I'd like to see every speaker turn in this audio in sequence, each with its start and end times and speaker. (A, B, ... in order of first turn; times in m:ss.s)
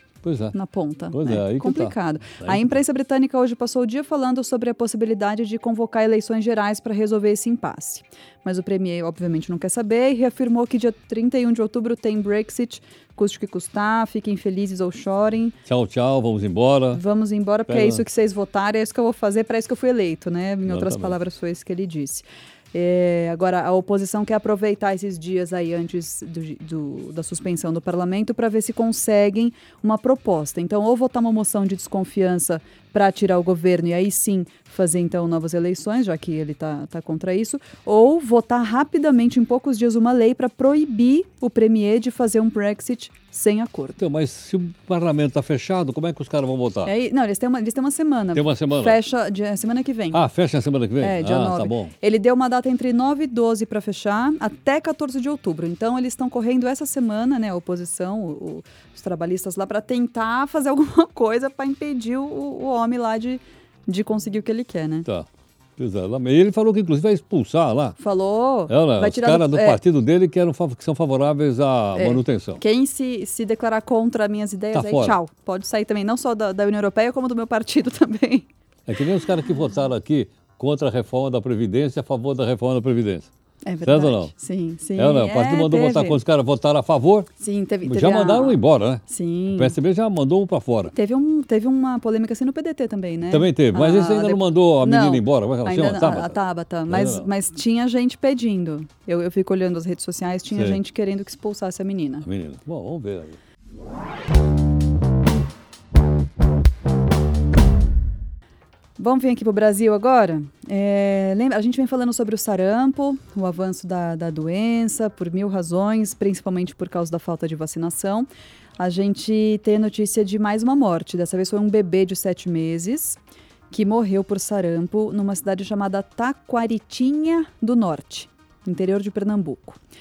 0:00.2-0:00.5 A
0:00.5-0:15.6 B
0:01.1-0:02.8 A
0:15.6-0:17.0 A
0:16.9-0:44.0 B
0:17.7-0:18.0 A
0:20.7-0:21.2 A
0:44.0-0:46.9 A
0:46.8-0:50.2 B
0:48.3-0:49.0 A
0:50.1-0:51.9 A
0:51.0-1:05.1 B
1:05.0-1:08.0 A
1:08.0-1:09.8 B
1:08.7-1:12.6 A
1:11.9-1:18.4 B
1:14.7-1:15.2 A
1:18.9-1:23.3 A
1:23.6-1:26.2 B
1:23.8-1:24.3 A
1:25.0-1:27.3 A
1:27.4-1:29.8 B
1:27.8-1:29.0 A
1:29.5-1:30.9 A
1:30.9-1:42.2 B
1:33.3-1:36.4 A
1:36.9-1:37.3 A
1:40.5-1:40.8 A
1:42.2-1:43.4 A
1:49.0-1:58.3 B
1:58.8-2:03.2 B
2:03.7-2:09.8 B